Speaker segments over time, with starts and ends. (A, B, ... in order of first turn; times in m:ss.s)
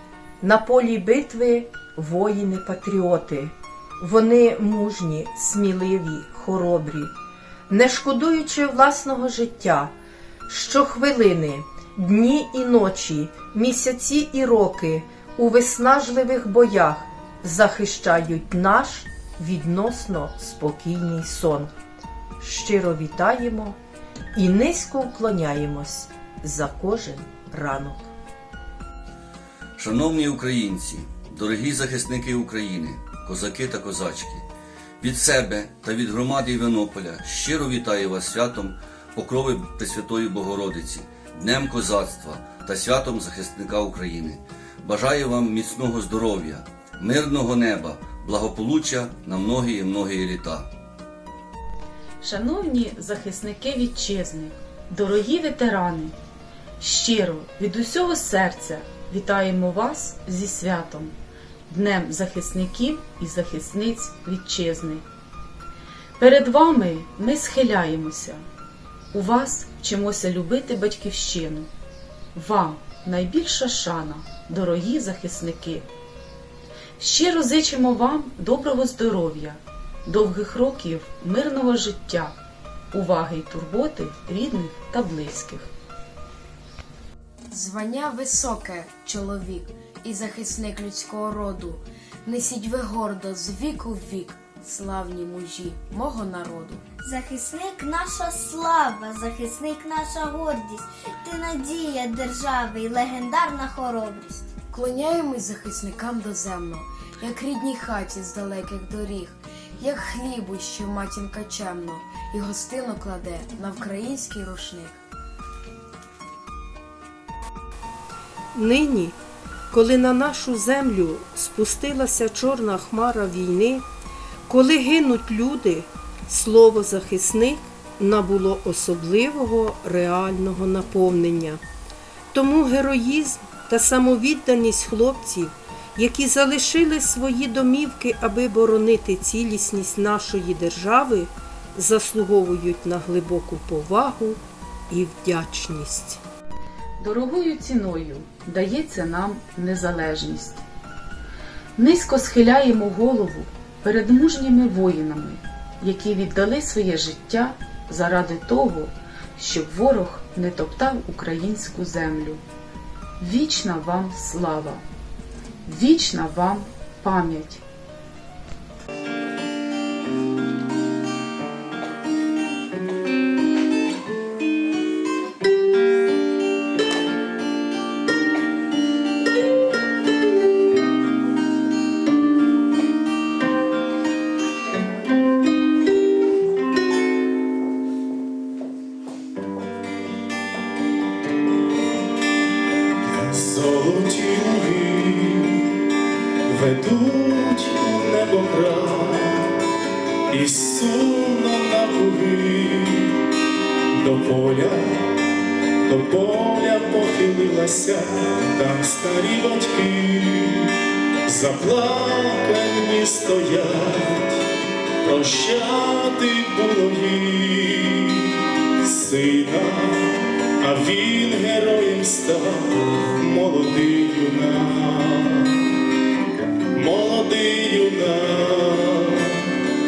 0:00.4-0:07.1 A
0:07.7-0:10.0 A
0:10.5-0:21.7 A
0:22.4-0:23.8 A
0:24.4-0:28.1 A
0:29.8-0:34.4 B
0:35.0-0:50.7 B
0:52.2-0:56.2 C
0:56.8-1:01.1 C
1:01.7-1:05.0 C
1:06.2-1:08.4 C
1:09.1-1:11.7 C
1:12.4-1:15.9 C
1:17.0-1:22.4 C
1:22.9-1:25.7 C
1:27.5-1:36.8 D
1:37.0-1:44.4 E
1:44.7-1:55.0 D
1:58.5-1:59.2 A
1:59.7-2:03.8 A
2:04.5-2:11.6 A
2:12.3-2:26.2 A
2:27.0-2:30.7 C
2:31.8-2:42.4 C
2:43.2-2:44.8 C
2:45.7-2:47.6 C
3:13.1-3:15.8 F
3:16.5-3:19.5 F
3:20.3-3:23.2 F
3:24.0-3:25.0 F
3:25.8-3:30.7 F
3:31.3-3:34.4 F
3:35.0-3:45.6 F
3:46.7-3:49.5 F